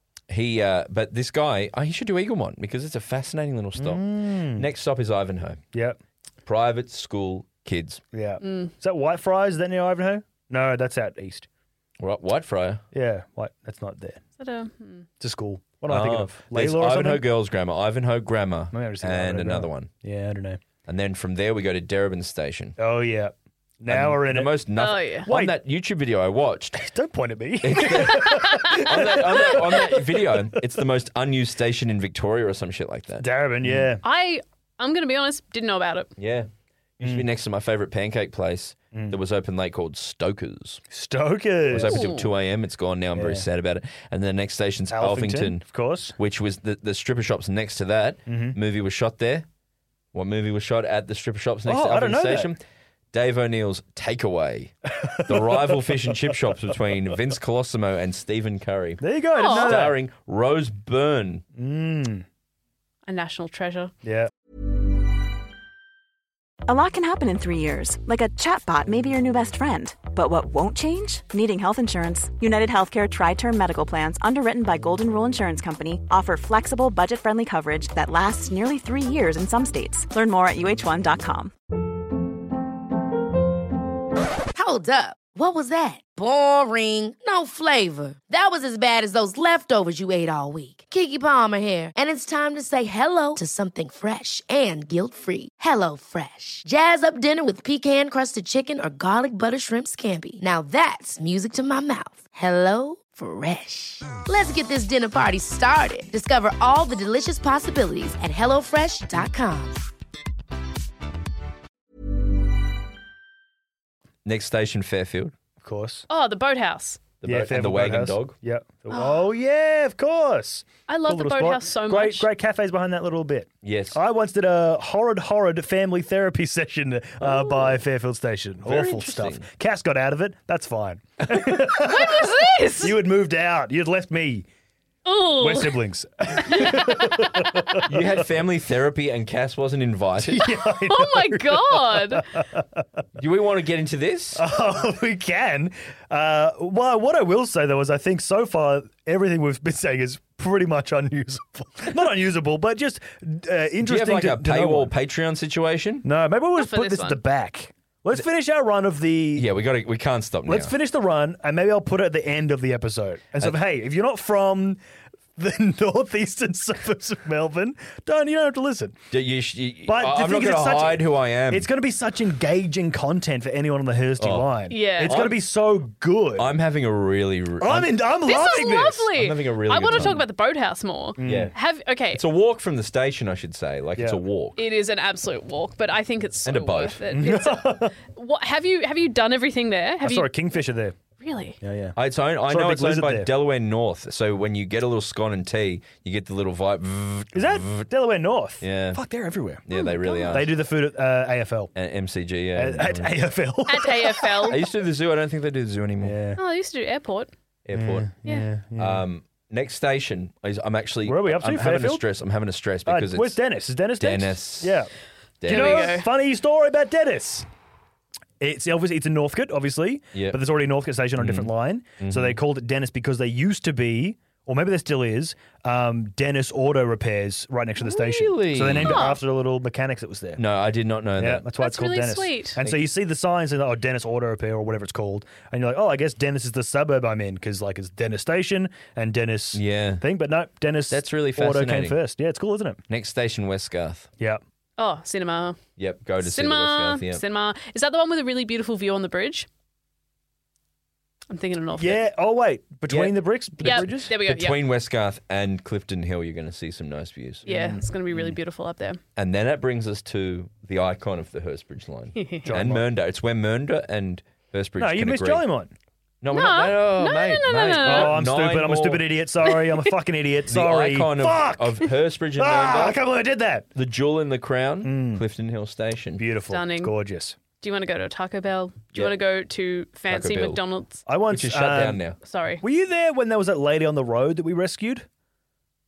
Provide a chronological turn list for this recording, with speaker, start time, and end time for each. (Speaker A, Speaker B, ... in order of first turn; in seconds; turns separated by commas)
Speaker A: 0.3-5.6, Speaker B: 3.8-4.7, Speaker A: 6.4-8.0, Speaker B: 8.1-11.5, Speaker C: 8.4-8.7, Speaker A: 12.0-12.8, Speaker B: 12.9-14.2, Speaker C: 14.4-15.1, Speaker B: 15.2-17.2, Speaker A: 15.9-19.9, Speaker B: 18.7-20.6, Speaker A: 20.9-22.8, Speaker B: 22.8-24.6, Speaker A: 23.9-26.8, Speaker C: 24.8-25.3, Speaker B: 25.3-25.5, Speaker B: 26.8-30.6, Speaker A: 27.6-33.9, Speaker C: 27.9-29.9, Speaker B: 33.2-34.0, Speaker C: 34.0-36.1, Speaker A: 36.2-40.8, Speaker B: 40.9-42.0, Speaker A: 41.7-45.6, Speaker C: 41.7-42.3, Speaker B: 43.1-43.5, Speaker B: 44.9-46.1, Speaker A: 46.2-49.5, Speaker B: 48.3-48.6, Speaker A: 50.1-52.6, Speaker B: 51.6-52.5, Speaker A: 53.1-54.7, Speaker B: 55.0-56.7, Speaker A: 55.2-61.4, Speaker B: 59.0-60.0, Speaker C: 59.3-59.9, Speaker B: 61.5-62.2, Speaker C: 63.1-63.9, Speaker B: 64.0-64.3, Speaker D: 66.7-81.5, Speaker E: 84.5-109.8, Speaker A: 114.2-115.3, Speaker B: 115.6-116.0, Speaker C: 116.1-117.1, Speaker A: 117.2-118.3, Speaker B: 117.2-134.4, Speaker C: 118.9-119.3, Speaker C: 120.9-122.3, Speaker A: 123.6-124.0, Speaker C: 127.2-127.8, Speaker A: 128.6-129.5, Speaker C: 131.7-133.0, Speaker C: 135.1-135.8, Speaker B: 135.4-138.2, Speaker C: 136.4-137.8, Speaker A: 137.8-140.5, Speaker B: 140.2-142.8, Speaker C: 140.4-142.2, Speaker A: 143.2-144.4, Speaker B: 144.3-154.9, Speaker A: 153.8-156.1, Speaker B: 156.0-159.5, Speaker C: 156.6-157.2, Speaker A: 159.3-160.7, Speaker B: 160.4-164.8, Speaker B: 165.4-169.0, Speaker A: 169.1-171.7, Speaker B: 169.9-176.5, Speaker A: 174.2-175.4, Speaker C: 174.7-175.2, Speaker A: 176.3-177.9, Speaker B: 177.6-179.1, Speaker C: 178.2-182.2, Speaker A: 179.1-180.2, Speaker B: 179.9-180.2, Speaker B: 181.2-181.5, Speaker A: 181.2-181.6, Speaker A: 182.1-184.6, Speaker C: 184.6-190.3, Speaker A: 186.4-187.0, Speaker B: 187.1-187.9, Speaker B: 190.0-190.9, Speaker C: 191.2-191.6, Speaker B: 191.6-193.3, Speaker A: 191.9-197.9, Speaker B: 197.3-199.6, Speaker A: 198.6-199.0, Speaker A: 199.6-200.6, Speaker C: 199.7-200.4, Speaker B: 200.3-201.7, Speaker A: 201.7-203.1, Speaker B: 202.5-204.6, Speaker C: 203.7-204.6, Speaker A: 204.4-206.2, Speaker B: 206.0-206.4, Speaker C: 206.4-207.3, Speaker A: 207.6-208.1, Speaker B: 207.7-209.0, Speaker A: 208.8-213.4, Speaker B: 211.0-212.0, Speaker B: 212.8-214.9, Speaker A: 214.0-214.8, Speaker A: 215.4-216.0, Speaker C: 215.4-216.1, Speaker B: 215.4-217.4, Speaker B: 218.4-230.4, Speaker A: 220.1-220.4, Speaker A: 221.2-222.4, Speaker A: 227.8-229.1, Speaker C: 228.7-229.2, Speaker A: 230.3-231.5, Speaker B: 231.2-242.8, Speaker C: 231.6-232.6, Speaker A: 239.5-240.0, Speaker A: 240.9-242.0, Speaker A: 242.9-244.1, Speaker C: 244.8-245.6, Speaker A: 245.8-247.2, Speaker C: 246.2-249.5, Speaker C: 251.3-252.0, Speaker B: 251.8-254.1, Speaker A: 252.9-257.4, Speaker C: 253.6-254.6, Speaker B: 257.4-257.8, Speaker C: 257.4-259.0, Speaker A: 259.1-265.4, Speaker C: 262.1-262.5, Speaker B: 262.4-262.8, Speaker B: 264.8-265.7, Speaker A: 266.2-269.1, Speaker C: 266.3-268.2, Speaker B: 267.8-273.7, Speaker C: 269.5-269.8, Speaker A: 270.4-273.0, Speaker A: 273.7-276.2, Speaker B: 274.8-275.2, Speaker B: 276.2-277.4, Speaker C: 276.5-276.9, Speaker C: 277.6-281.0, Speaker A: 280.1-280.6, Speaker B: 281.1-282.0, Speaker A: 281.3-282.2, Speaker C: 282.2-282.6, Speaker B: 282.6-285.1